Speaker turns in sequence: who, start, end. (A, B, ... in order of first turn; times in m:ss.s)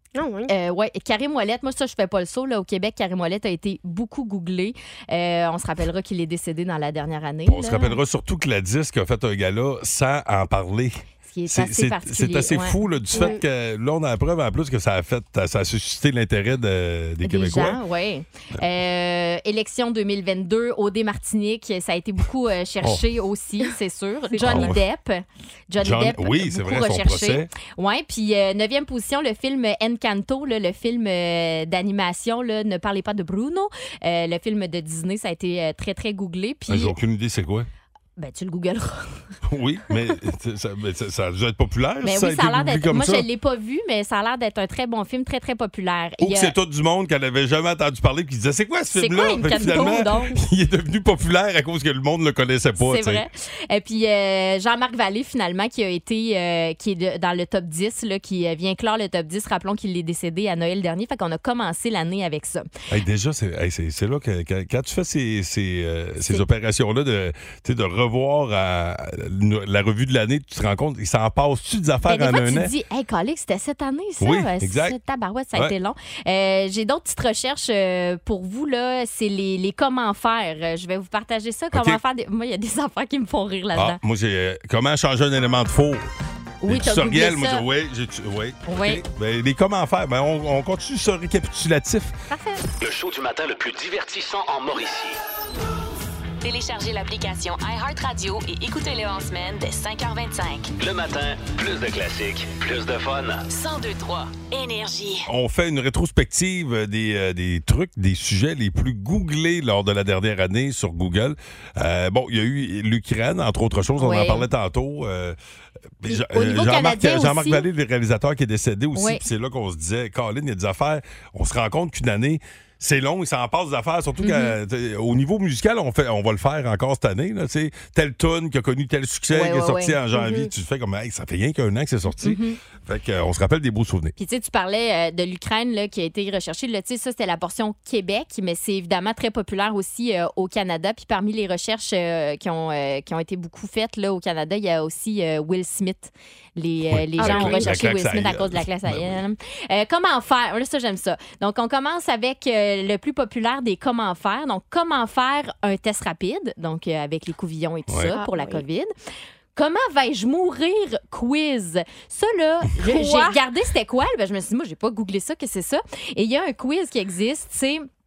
0:00.2-0:00.5 A
0:00.5-0:08.0 B
0:07.5-0:17.8 C
0:11.3-0:13.4 B
0:13.1-0:13.4 A
0:17.2-0:37.0 B
0:24.3-0:24.7 A
0:24.4-0:24.8 C
0:25.8-0:27.5 C
0:36.7-0:37.7 C
0:38.2-0:39.3 B
0:39.4-0:43.3 C
0:42.0-0:46.5 B
0:46.2-0:53.2 C
0:48.9-0:50.4 B
0:49.6-0:49.9 A
0:52.8-1:02.7 B
1:02.9-1:12.7 C
1:12.1-1:24.0 B
1:14.2-1:15.0 C
1:21.7-1:22.0 C
1:23.8-1:26.1 C
1:26.6-1:27.6 B
1:26.7-1:32.1 C
1:28.7-1:29.0 B
1:32.3-1:32.6 B
1:32.8-1:35.2 D
1:36.4-1:40.7 E
1:40.8-1:43.5 D
1:43.5-1:45.3 E
1:45.3-1:55.4 C
1:54.0-1:54.5 B
1:56.0-2:14.1 C
1:56.1-1:57.6 B
1:59.0-1:59.2 B
2:04.2-2:04.6 B
2:09.3-2:10.5 B
2:12.2-2:12.6 B
2:14.2-2:38.9 B
2:26.9-2:29.2 C
2:27.2-2:27.8 A
2:37.9-2:38.2 C
2:38.1-2:38.6 A
2:39.6-2:47.9 B